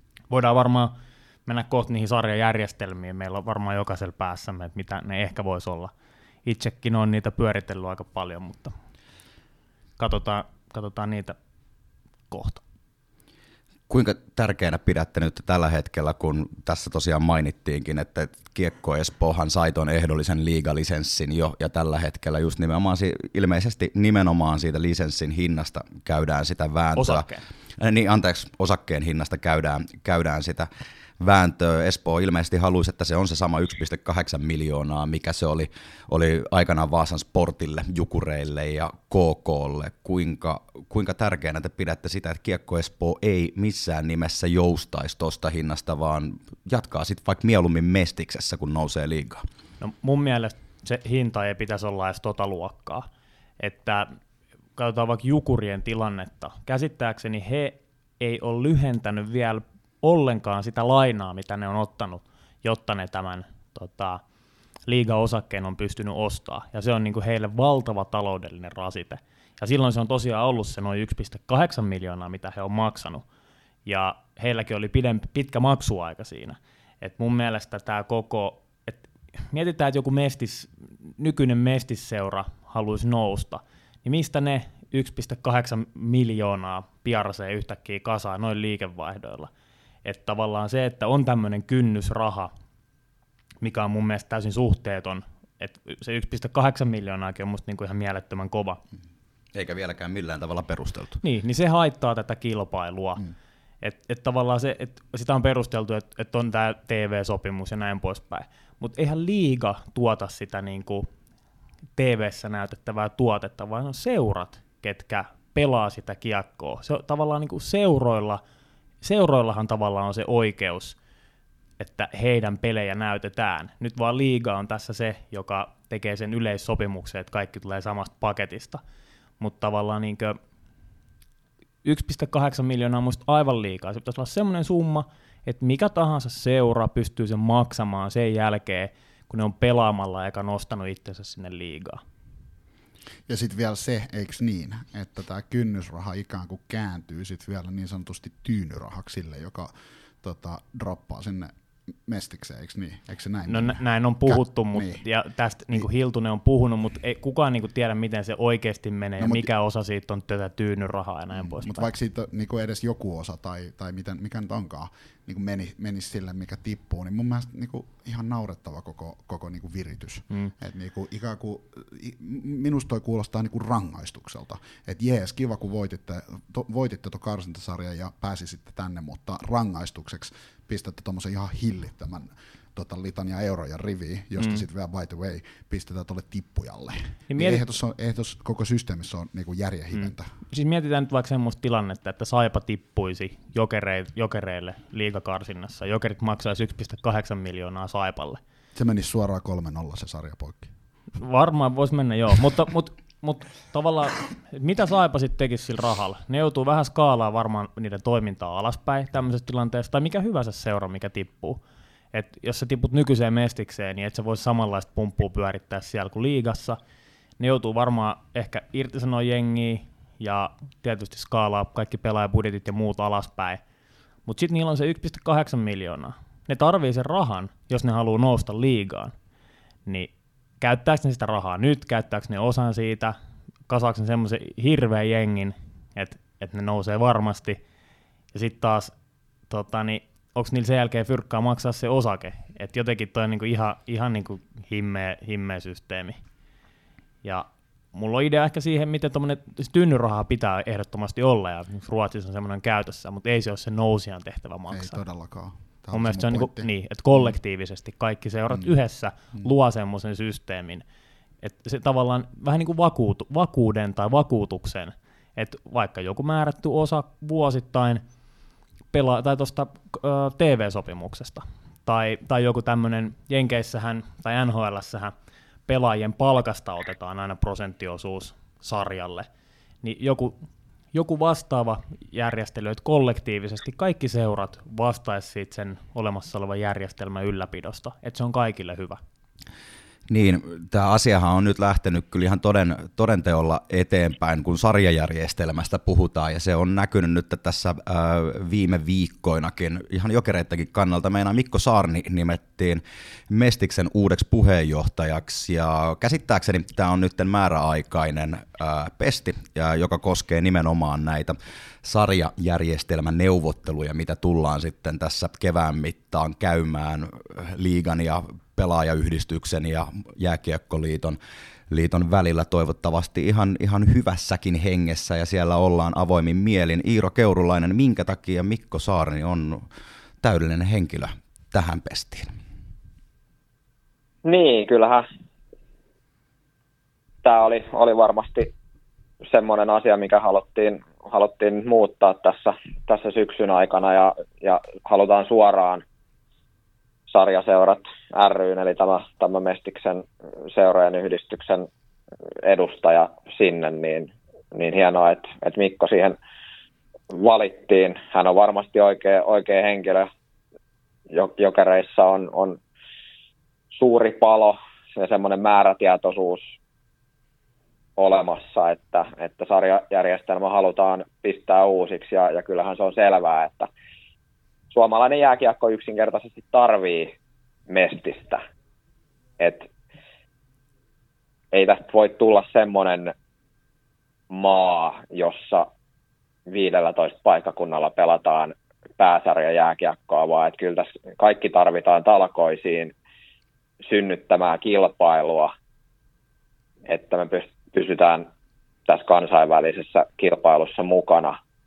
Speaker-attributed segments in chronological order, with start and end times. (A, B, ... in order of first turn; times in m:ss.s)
0:00.3-0:05.9 A
0:06.4-0:08.7 A
0:10.0-0:11.4 A
0:12.3-0:12.6 A
0:13.9-0:30.7 B
0:26.9-0:27.4 A
0:31.2-0:49.4 B
0:49.8-0:53.1 A
0:53.6-0:54.2 A
0:54.8-1:04.2 A
1:04.9-1:13.2 A
1:13.8-1:29.5 A
1:30.0-1:32.5 A
1:33.6-1:38.8 A
1:39.5-1:41.2 B
1:41.2-1:43.2 A
1:43.8-1:51.1 A
1:52.0-1:58.4 A
1:59.0-2:01.0 A
2:01.8-2:08.8 A
2:09.4-2:10.4 A
2:11.8-2:22.0 A
2:23.3-2:31.5 C
2:32.0-2:35.0 C
2:33.5-2:41.9 A
2:39.2-2:39.5 C
2:41.4-3:10.3 C
3:04.4-3:04.6 A
3:07.3-3:07.6 A
3:09.9-3:18.4 A
3:18.7-3:20.7 C
3:21.1-3:31.6 A
3:32.1-3:36.8 A
3:37.4-3:43.6 A
3:44.2-3:49.1 A
3:49.8-3:53.1 A
3:53.7-3:57.6 A
3:58.3-3:58.9 A
3:59.5-4:06.2 A
4:07.2-4:15.0 A
4:14.7-4:17.3 C
4:15.9-4:20.8 A
4:21.4-4:28.0 A
4:28.9-4:35.1 A
4:35.7-4:39.3 A
4:39.8-4:40.4 A
4:40.9-4:49.0 A
4:50.1-5:21.2 B
5:21.7-5:29.6 B
5:30.2-5:32.3 B
5:34.2-5:35.0 D
5:37.2-5:38.5 D
5:39.2-5:45.8 D
5:47.1-5:51.7 D
5:52.4-5:56.2 D
5:57.1-6:00.1 D
6:01.1-6:02.6 D
6:03.7-6:06.5 D
6:08.0-6:13.7 D
6:14.7-6:17.1 D
6:17.7-6:18.4 D
6:19.4-6:19.7 D
6:21.5-6:23.1 D
6:24.3-6:25.7 D
6:26.5-6:32.9 D
6:33.8-6:35.5 D
6:36.9-6:38.3 D
6:38.9-6:41.4 D